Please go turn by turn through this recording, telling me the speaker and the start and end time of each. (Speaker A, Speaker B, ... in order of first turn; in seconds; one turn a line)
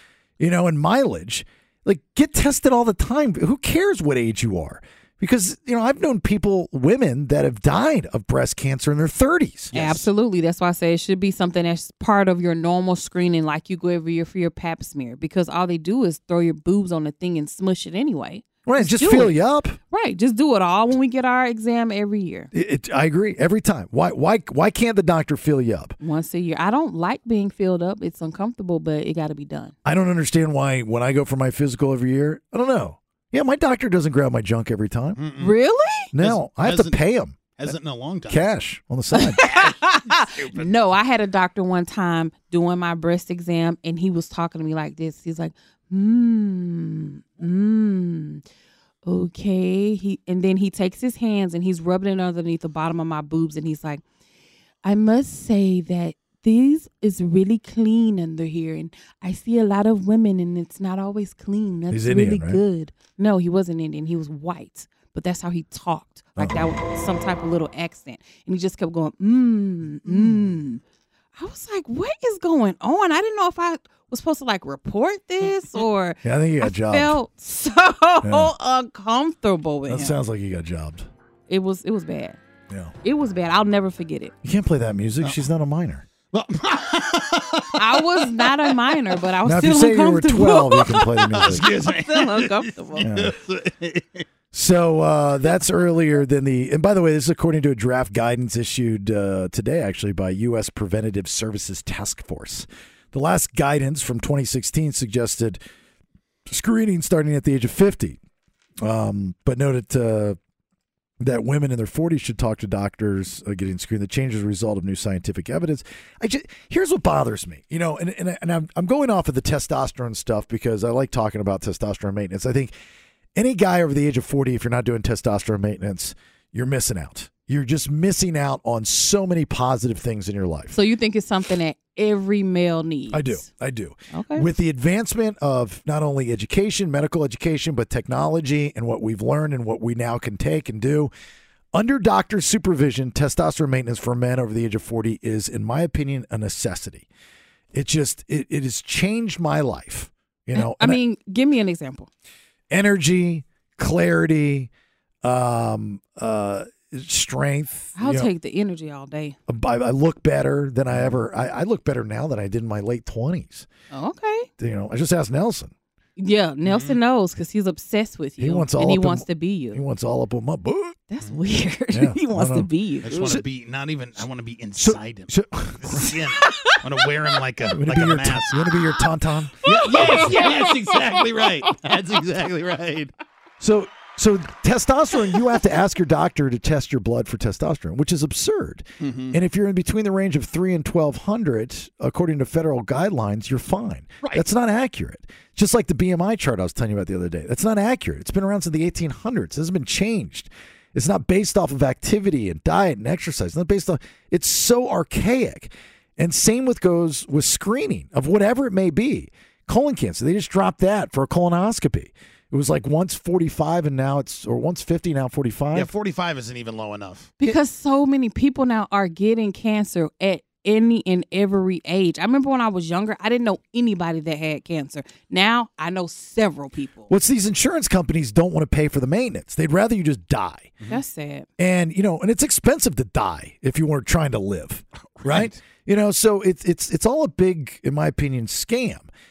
Speaker A: 0.4-10.0
Speaker B: 9.7-19.4
Speaker A: 18.6-19.8
Speaker B: 19.9-22.5
Speaker A: 22.5-25.9
Speaker B: 26.0-29.7
Speaker A: 29.8-35.2
Speaker C: 35.2-35.5
Speaker B: 35.4-36.1
Speaker A: 36.1-37.5
Speaker C: 36.2-37.0
Speaker C: 37.5-38.5
Speaker A: 38.3-39.4
Speaker B: 39.1-48.4
Speaker C: 39.4-40.7
Speaker B: 49.0-54.0
Speaker B: 54.8-70.8
Speaker A: 61.9-62.6
Speaker A: 66.4-66.7
Speaker B: 71.4-80.2
Speaker A: 76.2-77.2
Speaker A: 78.2-78.5
Speaker A: 79.9-81.1
Speaker B: 81.5-82.4
Speaker A: 82.7-82.9
Speaker B: 83.0-84.3
Speaker A: 84.4-86.0
Speaker C: 86.3-87.7
Speaker B: 87.8-93.0
Speaker A: 89.4-91.7
Speaker C: 91.4-94.2
Speaker A: 93.0-93.3
Speaker A: 94.5-105.6
Speaker A: 106.5-108.2
Speaker A: 108.8-110.4
Speaker A: 111.2-122.7
Speaker A: 123.3-130.8
Speaker B: 130.7-133.4
Speaker A: 133.1-141.1
Speaker B: 134.1-134.4
Speaker A: 141.7-147.1
Speaker A: 147.7-151.0
Speaker B: 150.5-152.1
Speaker A: 152.7-154.7
Speaker A: 155.2-158.3
Speaker B: 157.9-159.4
Speaker A: 159.5-163.7
Speaker B: 163.9-164.5
Speaker A: 164.6-165.7
Speaker B: 166.2-169.8
Speaker C: 166.7-167.0
Speaker A: 168.4-171.0
Speaker B: 171.1-173.4
Speaker A: 171.9-173.4
Speaker C: 173.0-178.7
Speaker A: 174.8-176.1
Speaker A: 177.7-180.4
Speaker C: 179.6-183.1
Speaker B: 179.7-180.9
Speaker A: 183.6-215.9
Speaker C: 189.0-189.3
Speaker C: 215.7-217.3
Speaker B: 217.4-227.1
Speaker A: 227.1-230.7
Speaker B: 230.9-231.5
Speaker A: 231.6-239.1
Speaker C: 235.2-235.6